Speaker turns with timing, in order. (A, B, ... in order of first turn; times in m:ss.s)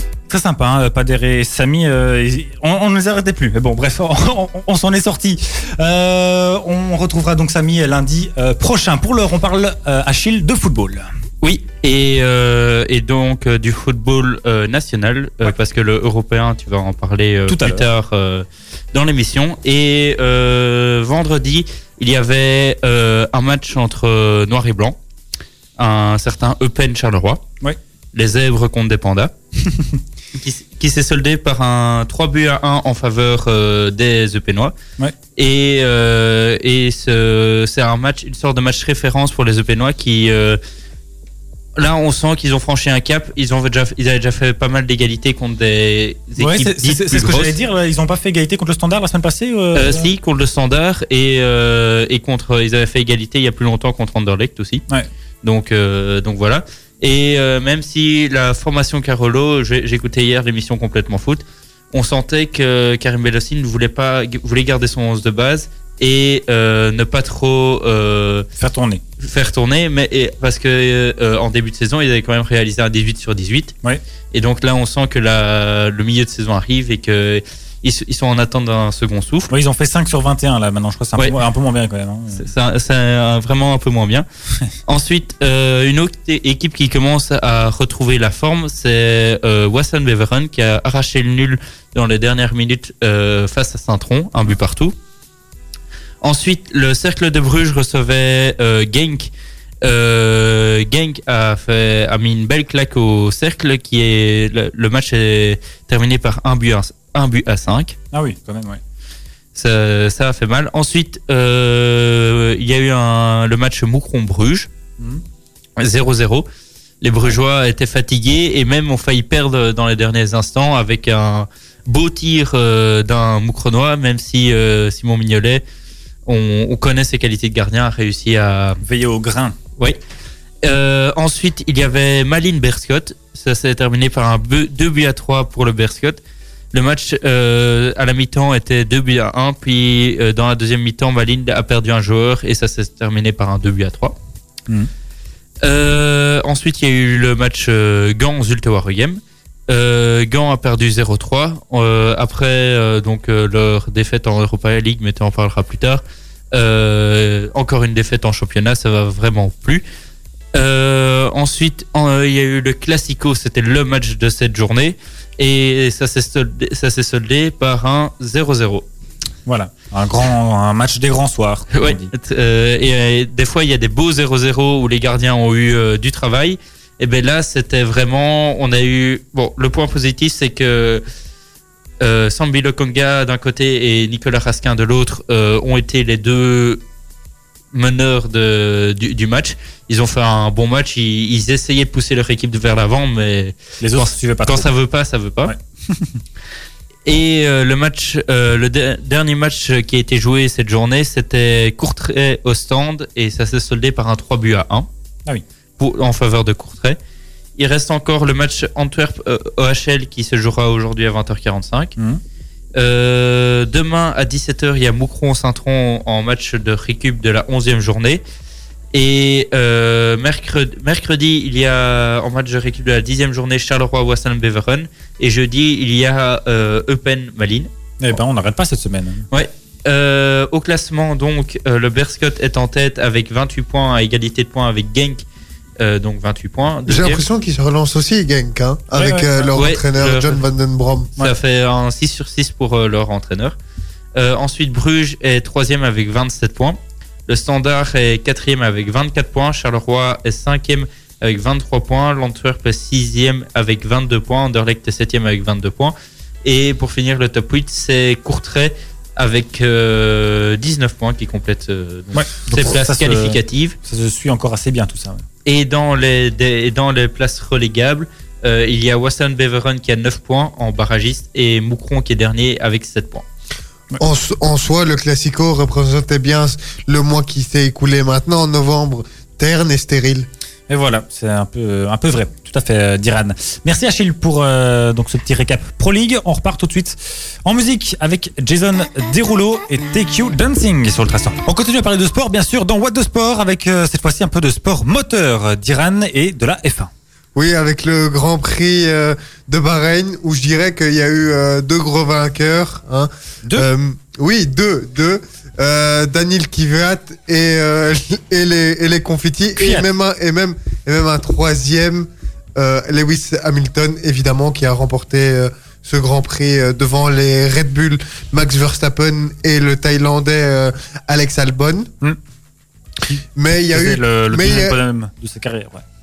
0:00.3-0:11.1 A
0:11.4-0:25.0 B
0:17.5-0:17.8 A
0:25.8-0:27.4 B
0:28.1-0:29.3 B
0:30.3-0:34.7 B
0:35.4-0:40.6 B
0:41.8-0:47.6 B
0:46.4-0:50.1 A
0:49.8-0:54.8 B
0:55.4-1:08.5 B
1:08.6-1:09.0 A
1:09.2-1:13.7 B
1:14.3-1:19.5 B
1:19.5-1:22.5 A
1:22.3-1:24.3 B
1:24.9-1:35.0 B
1:36.2-1:39.3 B
1:39.8-1:48.0 B
1:48.1-1:48.8 A
1:49.6-1:54.7 B
1:55.8-1:56.5 B
1:57.0-2:05.6 B
2:06.3-2:08.8 B
2:08.8-2:09.6 A
2:10.6-2:16.2 B
2:16.7-2:24.2 B
2:25.6-2:36.0 B
2:36.5-2:39.8 B
2:40.5-2:48.9 B
2:49.5-2:52.1 A
2:51.7-3:01.0 B
3:02.0-3:06.8 B
3:07.7-3:15.5 B
3:13.8-3:14.7 A
3:15.5-3:16.2 A
3:17.1-3:24.9 B
3:25.8-3:27.0 B
3:27.6-3:31.9 B
3:32.8-3:38.2 B
3:38.9-3:47.7 B
3:48.0-3:49.2 A
3:49.3-3:55.2 B
3:55.8-3:57.2 B
3:56.9-4:01.1 C
3:58.9-3:59.5 A
3:59.6-4:00.4 B
4:01.2-4:03.6 B
4:04.2-4:15.9 B
4:16.4-4:23.8 B
4:22.1-4:25.2 A
4:25.4-4:33.2 B
4:34.0-4:40.3 C
4:40.7-4:56.9 A
4:57.4-5:21.9 C
5:09.6-5:09.9 A
5:23.1-5:25.8 A
5:23.4-5:24.8 C